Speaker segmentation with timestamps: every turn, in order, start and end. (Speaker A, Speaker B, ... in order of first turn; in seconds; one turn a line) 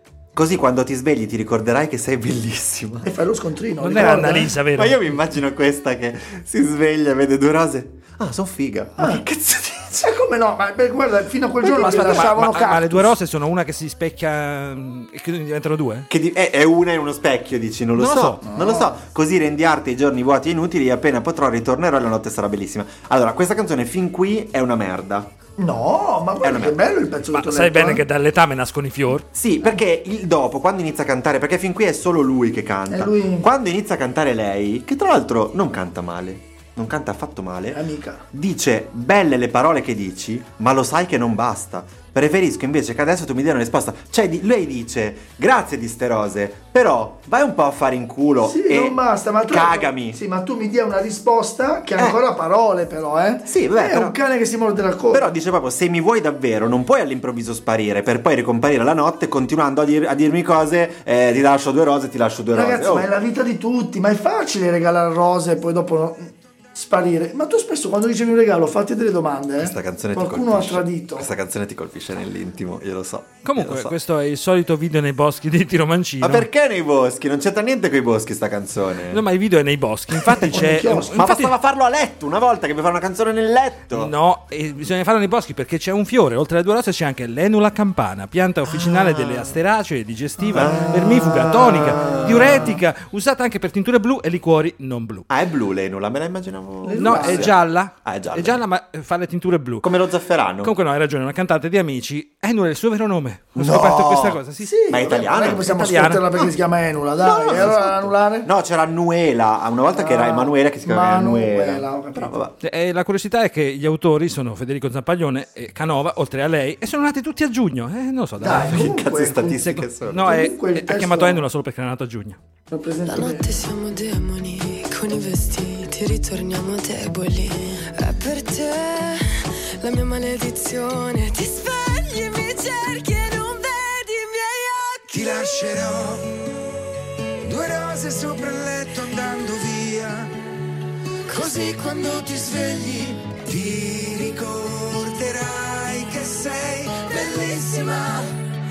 Speaker A: 0.3-3.1
Speaker B: 3.0-4.5
Speaker C: 3.8-5.1
Speaker A: 4.7-10.0
Speaker B: 9.0-9.2
Speaker B: 10.0-13.1
Speaker C: 11.7-16.1
Speaker A: 11.8-12.3
Speaker A: 16.1-25.3
Speaker C: 18.0-18.4
Speaker B: 18.4-19.0
Speaker B: 25.6-28.0
Speaker A: 26.4-26.8
Speaker C: 27.3-29.3
Speaker A: 29.3-37.8
Speaker B: 32.9-33.5
Speaker B: 37.7-38.2
Speaker A: 38.3-50.2
Speaker B: 48.4-55.3
Speaker A: 53.5-54.2
Speaker A: 55.1-63.1
Speaker B: 62.5-71.3
Speaker A: 69.6-74.0
Speaker C: 73.4-76.5
Speaker A: 76.2-79.2
Speaker C: 79.1-81.5
Speaker A: 80.1-84.1
Speaker B: 80.4-81.2
Speaker C: 83.9-95.3
Speaker A: 88.7-89.5
Speaker B: 90.5-90.9
Speaker A: 90.5-92.8
Speaker A: 95.3-98.6
Speaker B: 96.8-97.5
Speaker C: 97.0-99.9
Speaker A: 99.8-100.7
Speaker C: 100.6-104.9
Speaker A: 103.6-105.7
Speaker B: 104.6-108.5
Speaker C: 105.6-106.2
Speaker A: 107.2-112.6
Speaker B: 110.0-112.4
Speaker C: 112.6-118.9
Speaker B: 118.4-119.6
Speaker A: 118.5-120.3
Speaker C: 119.6-122.4
Speaker B: 120.2-121.4
Speaker B: 122.7-123.5
Speaker D: 123.1-135.1
Speaker E: 135.1-136.4
Speaker E: 137.4-140.3
Speaker E: 141.3-148.3